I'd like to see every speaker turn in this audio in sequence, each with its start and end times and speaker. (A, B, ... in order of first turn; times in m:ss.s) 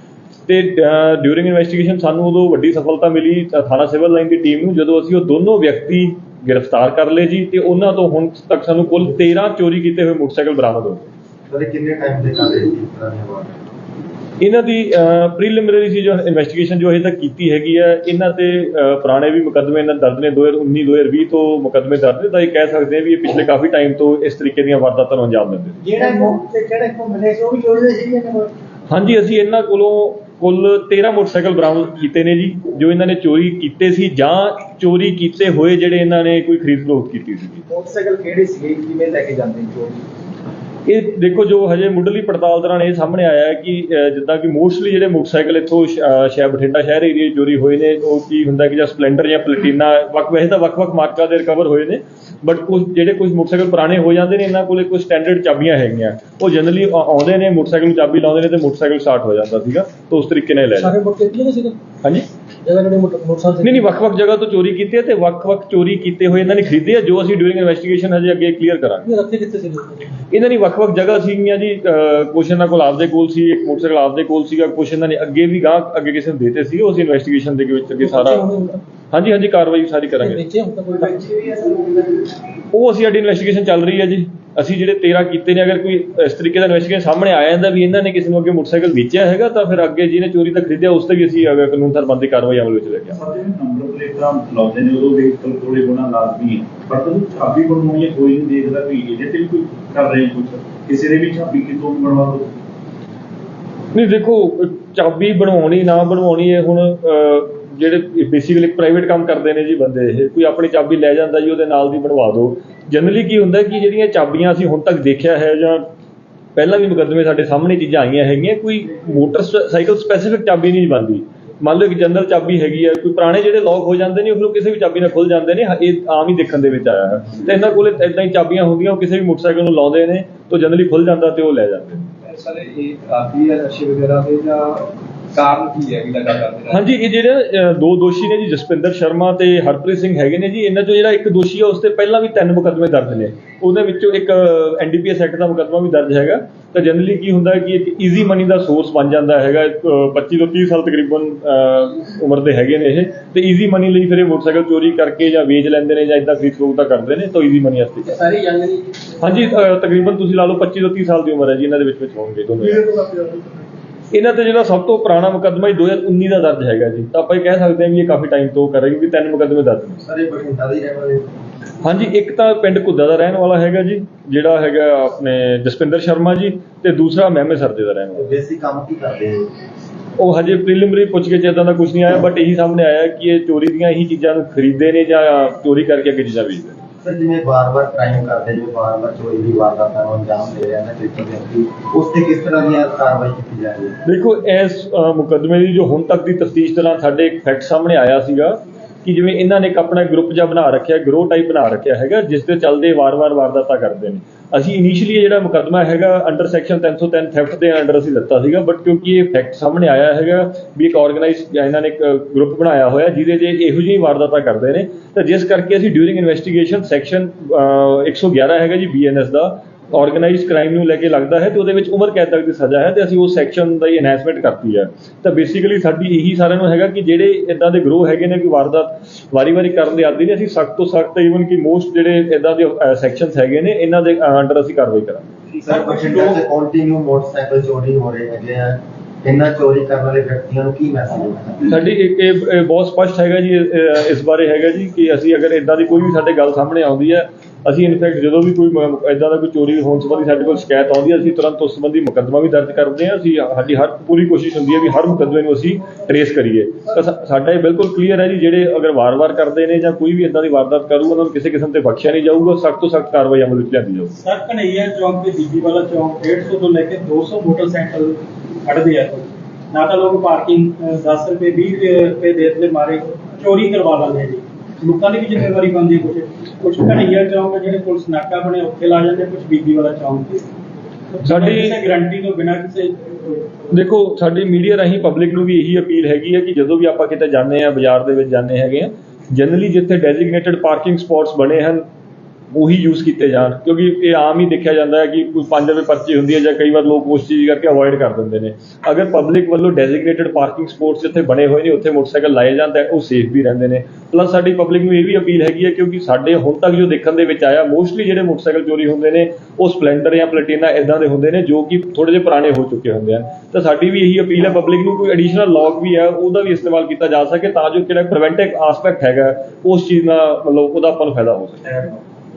0:00.5-0:11.1 A
0:11.5-0:13.6 B
0:14.4-0:25.8 A
0:25.8-0:28.5 C
0:28.9-0:37.6 A
0:38.4-0:38.6 C
0:40.9-1:01.0 A
1:00.7-1:01.8 D
1:02.6-1:03.9 D
1:03.6-1:09.1 A
1:09.0-1:10.1 D
1:10.3-1:18.5 A
1:18.0-1:18.8 D
1:19.1-1:20.4 A
1:20.2-1:21.6 D
1:22.7-1:33.2 A
1:33.2-1:42.6 E
1:43.9-1:55.9 A
1:56.6-2:12.1 A
2:12.2-2:16.9 F
2:16.7-2:38.4 A
2:38.3-2:38.8 D
2:39.2-2:42.9 A
2:44.1-2:50.0 A
2:50.0-2:51.3 B
2:51.8-2:58.3 A
2:58.2-2:59.5 B
3:00.2-3:06.8 A
3:07.0-3:14.0 B
3:14.0-3:55.3 A
3:55.6-3:56.4 G
3:55.6-4:01.8 B
4:01.7-4:24.1 A
4:24.2-4:40.5 G
4:41.2-4:43.4 G
4:41.3-4:41.8 A
4:43.7-4:51.8 A
4:52.5-5:21.9 A